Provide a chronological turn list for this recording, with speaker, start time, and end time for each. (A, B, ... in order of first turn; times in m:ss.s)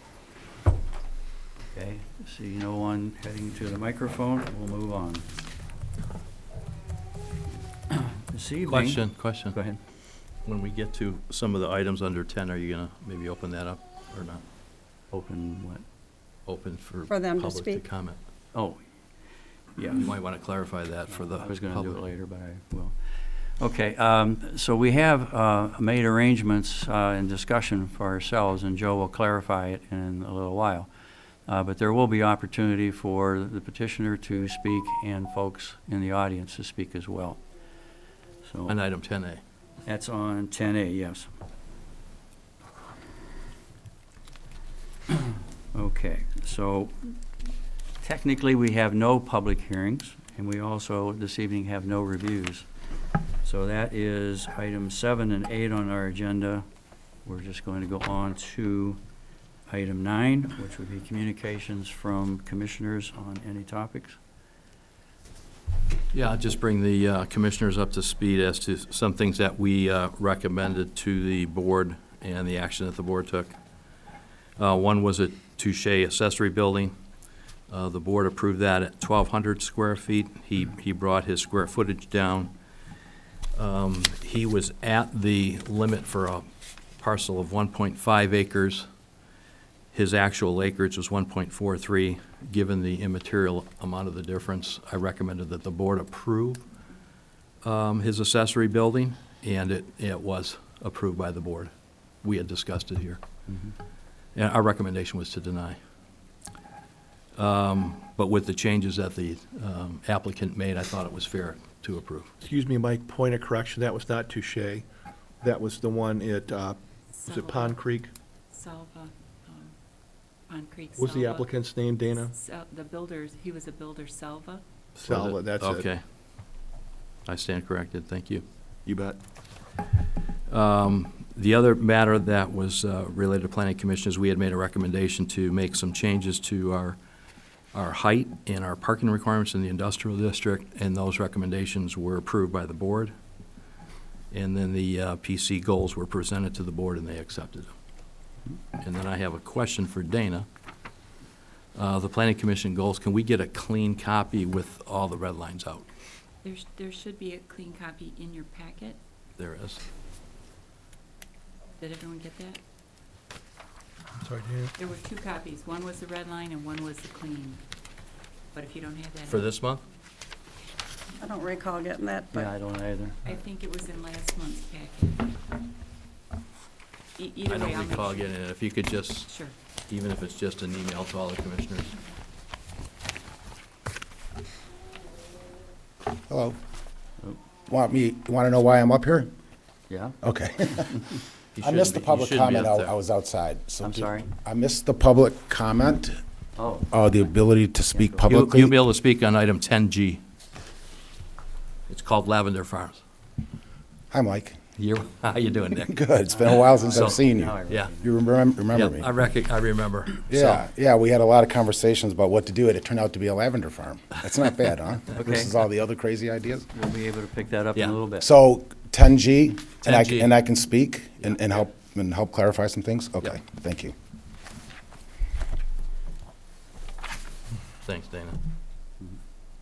0:01.7-0:05.3 A
0:07.9-0:09.8 A
0:08.6-0:09.6 B
0:10.4-0:14.4 B
0:15.1-0:15.8 A
0:16.4-0:18.2 B
0:17.1-0:17.8 C
0:18.5-0:18.8 A
0:19.8-0:20.1 A
0:19.9-0:22.0 B
0:21.1-0:30.9 A
0:31.5-0:37.4 A
0:38.4-0:38.8 A
0:38.7-0:39.4 B
0:39.8-0:41.4 A
0:45.7-0:47.1 A
0:48.0-0:52.7 A
0:53.4-0:56.6 A
0:57.2-0:59.0 A
0:59.7-1:04.2 A
1:06.1-1:13.5 B
1:14.6-1:16.9 B
1:17.7-1:22.5 B
1:23.5-1:26.4 B
1:27.0-1:28.8 B
1:29.9-1:36.6 B
1:37.6-1:41.7 B
1:42.2-1:43.2 B
1:43.5-1:43.7 A
1:44.3-1:45.8 B
1:47.4-1:52.3 B
1:52.4-1:54.8 D
1:55.4-1:58.1 D
1:57.1-1:57.8 E
1:58.5-1:59.7 E
2:00.5-2:01.5 E
2:00.9-2:02.3 D
2:02.2-2:04.6 E
2:05.0-2:05.9 D
2:05.0-2:06.0 B
2:07.2-2:08.4 B
2:08.8-2:09.2 D
2:10.5-2:17.0 B
2:17.7-2:23.1 B
2:24.3-2:27.7 B
2:28.8-2:30.4 B
2:31.8-2:35.8 B
2:36.4-2:39.0 E
2:39.4-2:39.8 B
2:41.8-2:42.6 E
2:44.2-2:44.7 D
2:44.8-2:47.6 E
2:48.5-2:49.4 E
2:49.3-2:49.8 B
2:51.2-2:52.5 C
2:52.3-2:53.2 A
2:53.2-2:55.3 E
2:57.2-2:58.4 E
2:57.5-2:59.3 B
2:59.2-2:59.5 E
2:59.9-3:01.9 B
3:06.3-3:06.6 F
3:07.7-3:09.3 F
3:09.9-3:10.2 A
3:10.2-3:11.1 F
3:11.5-3:12.9 B
3:11.6-3:16.2 F
3:13.8-3:14.3 A
3:16.6-3:17.1 A
3:16.9-3:18.8 F
3:17.9-3:18.4 A
3:18.2-3:20.2 B
3:21.9-3:23.0 B
3:24.1-3:24.6 F
3:24.8-3:27.2 B
3:25.8-3:29.1 F
3:26.3-3:28.1 A
3:28.7-3:30.6 B
3:30.3-3:36.7 F
3:35.2-3:35.5 A
3:36.7-3:38.3 A
3:38.2-3:43.9 F
3:39.8-3:40.3 B
3:47.8-3:48.4 B